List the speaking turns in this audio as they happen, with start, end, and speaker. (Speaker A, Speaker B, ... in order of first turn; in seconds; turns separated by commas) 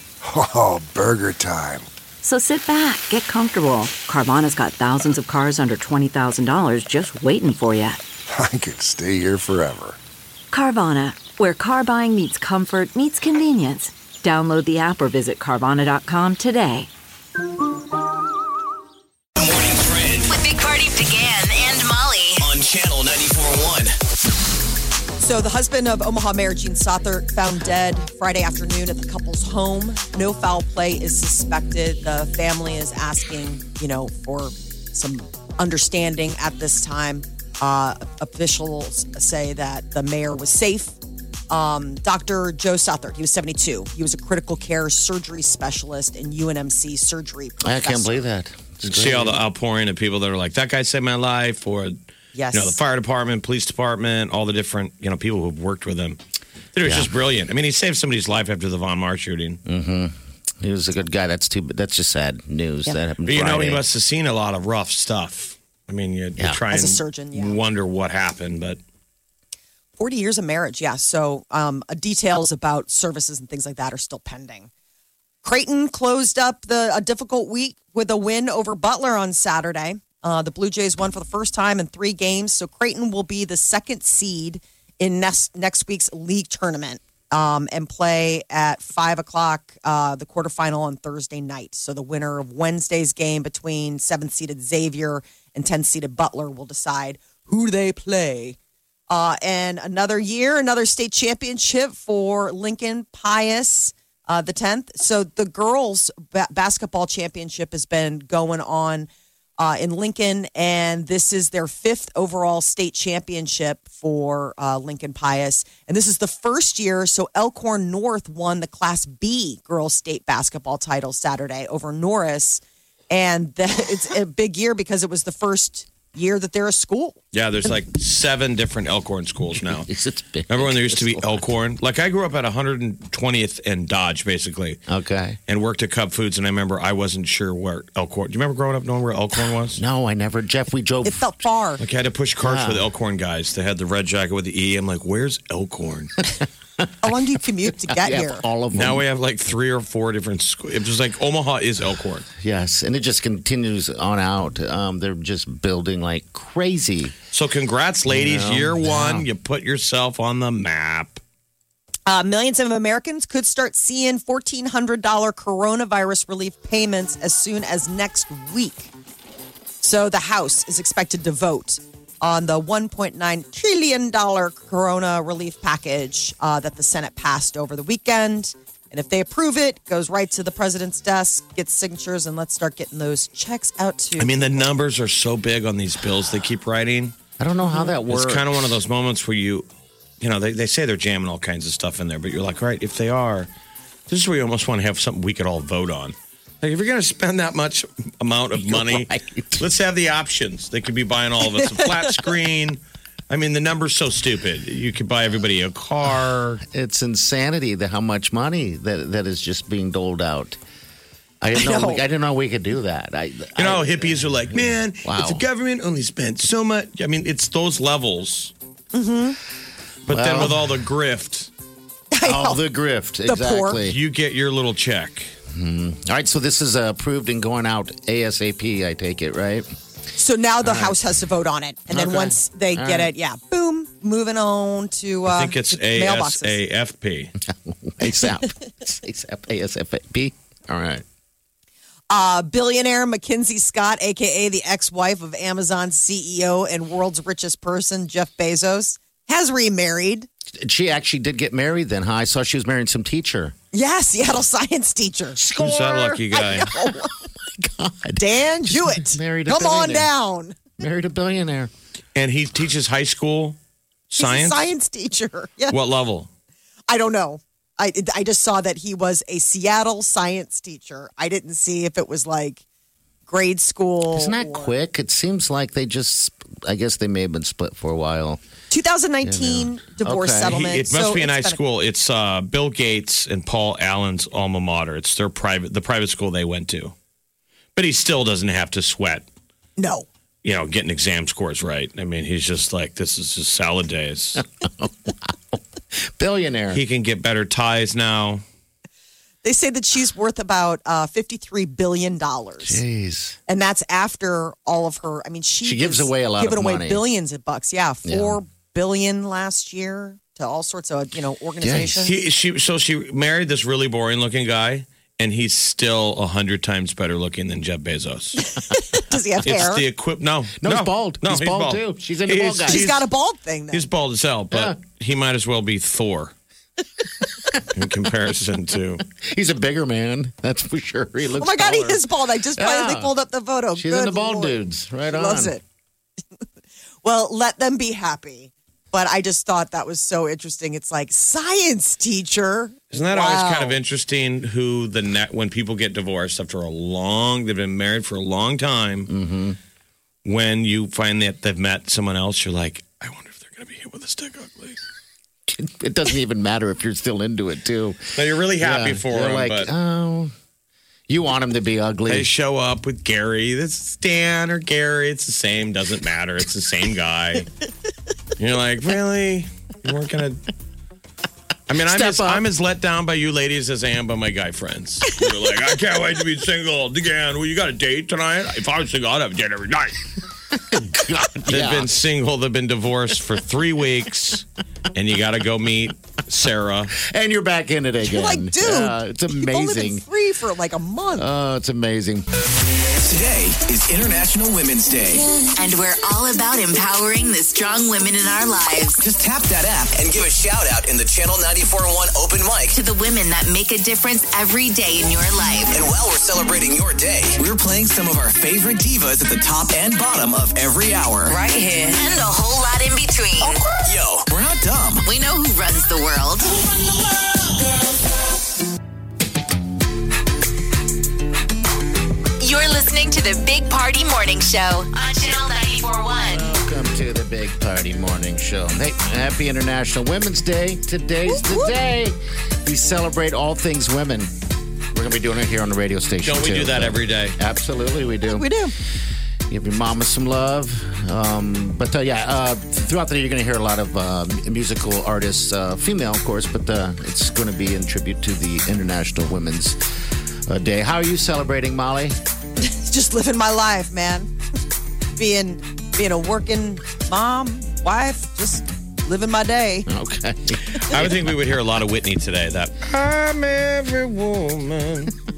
Speaker A: 0.2-1.9, Speaker B: 2.2-8.0, Speaker A: 8.3-10.0, Speaker B: 10.5-16.9, Speaker C: 19.4-20.4, Speaker D: 20.3-22.5, Speaker C: 22.4-23.9, Speaker E: 25.2-41.0, Speaker E: 41.5-48.2, Speaker F: 47.6-49.4, Speaker G: 48.8-51.9, Speaker E: 52.3-52.8, Speaker G: 52.5-56.2, Speaker G: 56.7-59.6, Speaker F: 56.8-57.1, Speaker F: 59.6-63.9, Speaker G: 63.2-68.8, Speaker E: 66.7-67.6, Speaker E: 70.0-74.7, Speaker E: 75.4-98.6, Speaker E: 99.1-109.1, Speaker E: 109.6-127.2, Speaker G: 127.3-129.9, Speaker F: 129.5-131.5, Speaker G: 130.5-134.8, Speaker F: 134.9-135.4, Speaker G: 135.5-139.8, Speaker F: 139.8-141.3, Speaker E: 141.0-141.8, Speaker G: 141.8-146.2, Speaker F: 142.4-142.8, Speaker F: 146.8-147.1, Speaker E: 147.0-148.4, Speaker F: 147.9-149.0, Speaker G: 148.7-152.2, Speaker F: 152.4-157.1, Speaker G: 157.3-161.2, Speaker F: 158.1-159.3, Speaker E: 162.1-168.9, Speaker E: 169.8-184.7, Speaker G: 184.2-187.1, Speaker F: 187.4-188.8, Speaker G: 187.8-189.7, Speaker G: 190.2-193.5, Speaker G: 194.1-206.6, Speaker F: 198.6-199.7, Speaker E: 201.5-201.9, Speaker F: 206.6-210.6, Speaker F: 211.4-215.4, Speaker E: 211.5-212.0, Speaker G: 213.6-218.5, Speaker E: 218.9-219.4, Speaker G: 220.1-221.5, Speaker F: 220.1-220.7, Speaker E: 222.1-222.6, Speaker F: 222.2-224.0, Speaker E: 223.2-223.8, Speaker G: 223.8-225.3, Speaker F: 225.5-229.7, Speaker E: 230.2-236.6, Speaker F: 230.6-231.2, Speaker F: 231.9-233.1, Speaker G: 235.2-237.3, Speaker F: 237.4-241.0, Speaker E: 242.1-250.3, Speaker F: 250.6-253.5, Speaker E: 253.7-255.4, Speaker F: 255.3-260.1, Speaker G: 255.6-256.7, Speaker E: 256.3-257.1, Speaker E: 258.1-260.6, Speaker F: 260.8-261.7, Speaker G: 262.1-263.6, Speaker G: 264.1-264.6, Speaker E: 264.2-265.8, Speaker G: 265.7-266.3, Speaker E: 266.9-272.6, Speaker E: 273.3-274.7, Speaker F: 274.1-278.4, Speaker E: 278.7-281.6, Speaker F: 279.2-280.6, Speaker G: 280.5-286.9, Speaker G: 287.7-289.2, Speaker E: 289.8-290.1, Speaker G: 290.4-294.4, Speaker F: 294.6-295.6, Speaker F: 296.1-296.8, Speaker G: 296.7-298.4, Speaker E: 299.4-302.8, Speaker F: 302.6-303.4, Speaker E: 303.5-312.1, Speaker F: 305.6-307.0, Speaker F: 308.0-308.4, Speaker F: 311.6-312.1, Speaker G: 312.0-318.5, Speaker E: 318.4-319.8, Speaker G: 319.4-323.1, Speaker F: 320.6-322.9, Speaker E: 322.6-323.8, Speaker G: 323.7-326.3, Speaker G: 327.7-329.0, Speaker F: 329.0-333.1, Speaker E: 331.3-335.6, Speaker F: 333.7-335.6, Speaker E: 337.0-343.8, Speaker G: 342.9-349.1, Speaker F: 349.1-349.6, Speaker G: 350.2-354.8, Speaker F: 355.5-360.3, Speaker G: 358.1-359.7, Speaker F: 361.1-362.3, Speaker G: 362.1-367.5, Speaker G: 368.4-370.4, Speaker G: 371.7-380.1, Speaker F: 371.8-372.4, Speaker F: 380.6-381.9, Speaker G: 381.5-386.9, Speaker F: 387.0-390.0, Speaker E: 388.0-391.3, Speaker F: 391.1-392.2, Speaker C: 393.0-395.3, Speaker D: 395.1-399.0, Speaker C: 399.0-402.8, Speaker D: 402.7-405.8, Speaker C: 405.7-411.4, Speaker D: 411.2-413.6, Speaker C: 413.5-415.1, Speaker D: 415.0-416.5, Speaker D: 422.4-426.4, Speaker F: 426.1-434.3, Speaker E: 431.2-431.8, Speaker F: 434.9-438.5, Speaker G: 436.2-437.4, Speaker E: 438.3-438.7, Speaker F: 439.5-449.8, Speaker F: 450.5-452.2, Speaker E: 452.6-454.3, Speaker E: 455.1-459.9, Speaker F: 459.9-461.2, Speaker G: 460.8-465.1